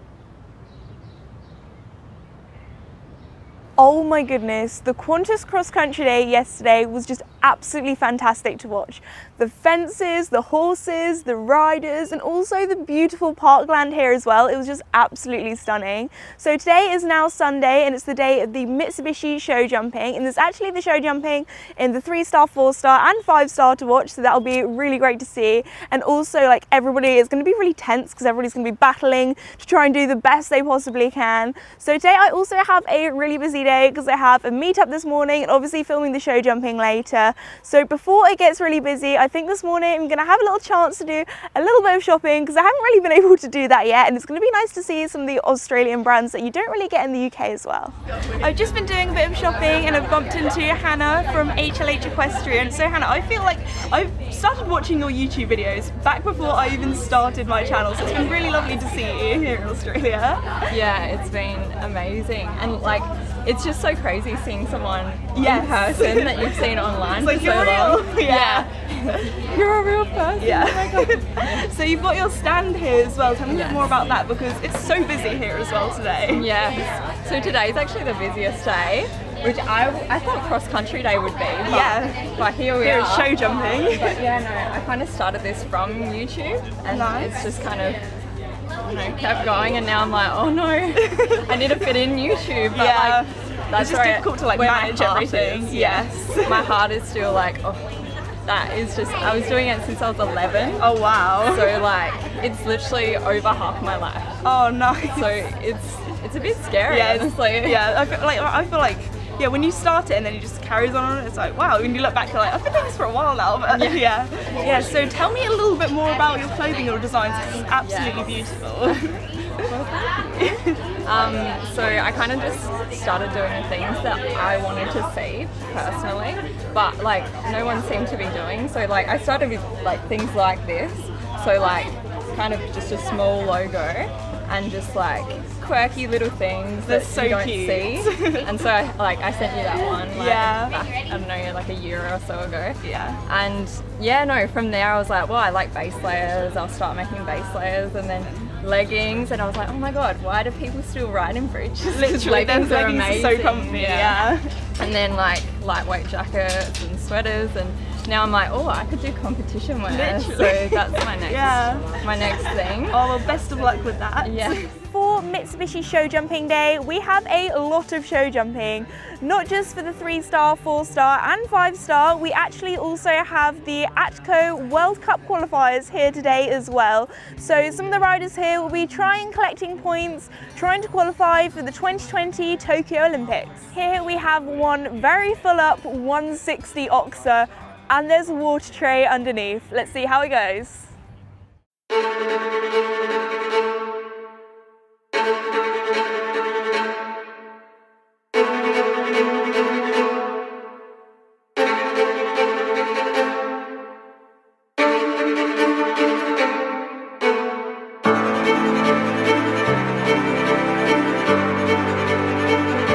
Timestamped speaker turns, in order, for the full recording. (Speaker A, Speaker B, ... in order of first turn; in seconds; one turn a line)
Speaker A: 3.8-60.4
Speaker B: 60.7-69.4
Speaker A: 65.3-68.7
Speaker A: 69.3-76.5
Speaker B: 70.3-71.7
Speaker B: 73.5-74.0
Speaker B: 76.3-88.0
Speaker A: 81.6-82.2
Speaker A: 82.8-84.2
Speaker A: 86.9-87.3
Speaker B: 88.8-98.0
Speaker A: 91.1-91.5
Speaker A: 92.7-96.7
Speaker B: 98.5-104.4
Speaker A: 100.8-101.8
Speaker A: 104.4-105.3
Speaker B: 105.1-107.8
Speaker A: 106.9-119.2
Speaker B: 113.7-114.1
Speaker B: 117.8-118.3
Speaker B: 119.7-120.2
Speaker A: 120.4-120.8
Speaker B: 121.0-154.2
Speaker A: 136.8-138.5
Speaker A: 140.1-140.7
Speaker A: 142.8-143.2
Speaker A: 151.9-154.5
Speaker B: 154.8-163.0
Speaker A: 159.9-161.9
Speaker A: 162.9-190.9
Speaker B: 164.2-164.6